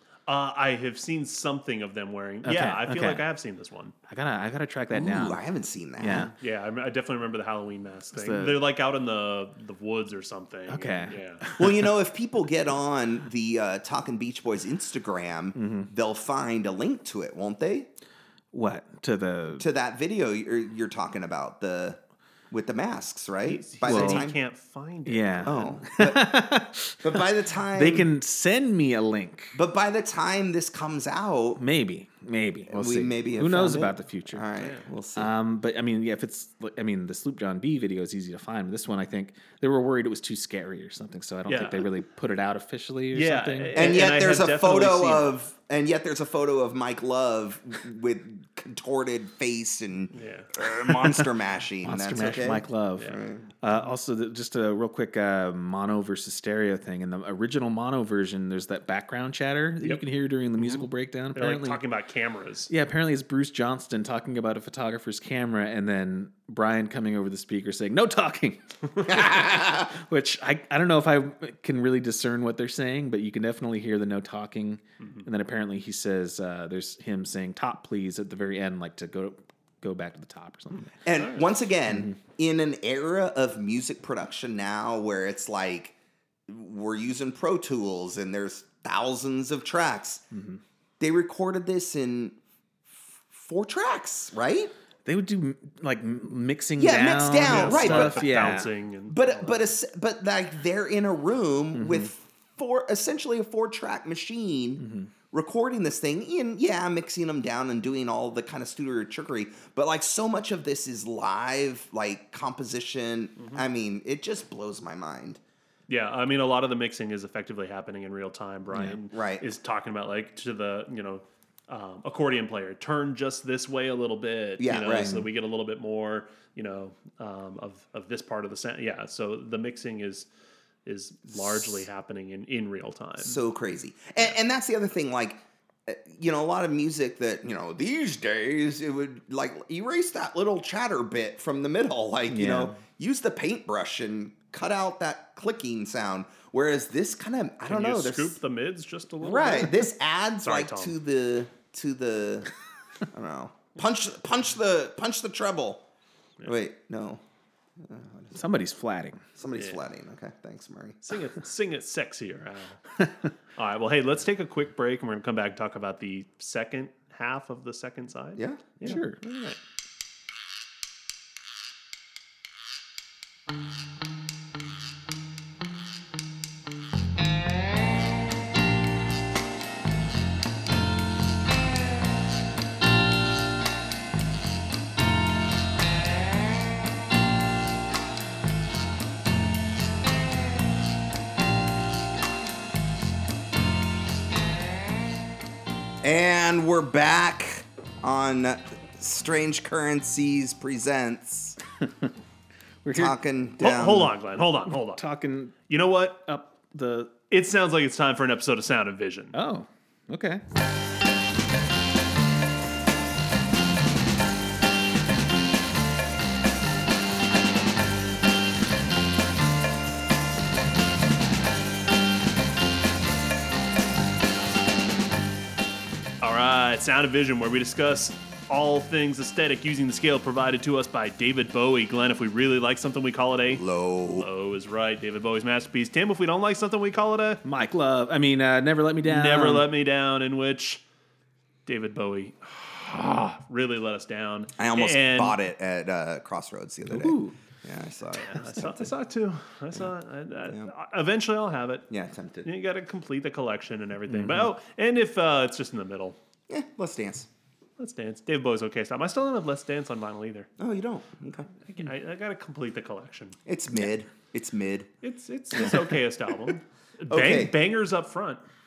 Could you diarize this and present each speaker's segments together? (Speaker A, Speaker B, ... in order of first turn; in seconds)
Speaker A: 0.3-4.0, 6.3-11.5, 23.4-25.8, 34.6-34.9, 41.5-41.9, 43.1-45.4, 50.1-50.5, 60.6-62.7, 81.2-81.5, 97.4-99.2, 115.9-130.3, 130.8-133.4, 147.7-149.9, 150.4-150.9, 159.6-159.8, 161.0-162.8, 163.6-169.6, 203.6-205.1, 205.7-206.3, 207.3-209.4, 226.2-237.4, 239.0-240.8, 241.7-245.4, 248.2-251.9, 252.4-256.2, 257.8-260.5, 261.7-263.4, 265.0-268.4
Speaker B: 2.4-3.2, 4.1-5.4, 6.0-6.3, 8.1-8.6, 10.7-11.9, 15.6-15.9, 18.5-19.6, 23.9-24.3, 25.1-29.6, 31.6-34.5, 35.1-43.9, 51.8-61.8, 62.7-81.0, 81.9-82.2, 90.3-90.6, 95.0-98.7, 101.8-102.1, 104.8-105.1, 118.7-119.0, 142.3-142.8, 158.3-159.2, 168.8-169.2, 201.8-202.1, 202.8-203.2, 204.7-205.6, 206.3-207.1, 209.3-210.4, 237.4-239.7, 246.9-247.4, 254.1-254.5
Speaker C: 4.9-6.3, 11.6-17.9, 19.6-22.0, 22.5-24.4, 25.4-26.4, 27.0-28.1, 29.6-31.6, 32.7-35.3, 43.8-53.5, 69.1-69.9, 81.0-86.0, 86.5-90.2, 91.0-92.4, 93.3-94.7, 96.8-115.4, 119.1-119.5, 124.6-125.3, 131.4-131.8, 133.2-148.4, 149.2-152.5, 153.1-155.8, 156.4-157.2, 157.8-158.4, 159.4-161.2, 168.4-169.0, 196.0-201.6, 202.9-204.2, 233.5-234.3, 244.6-248.9, 250.5-250.7, 251.9-252.5, 256.5-257.3, 260.6-261.5, 263.5-264.9, 267.1-267.6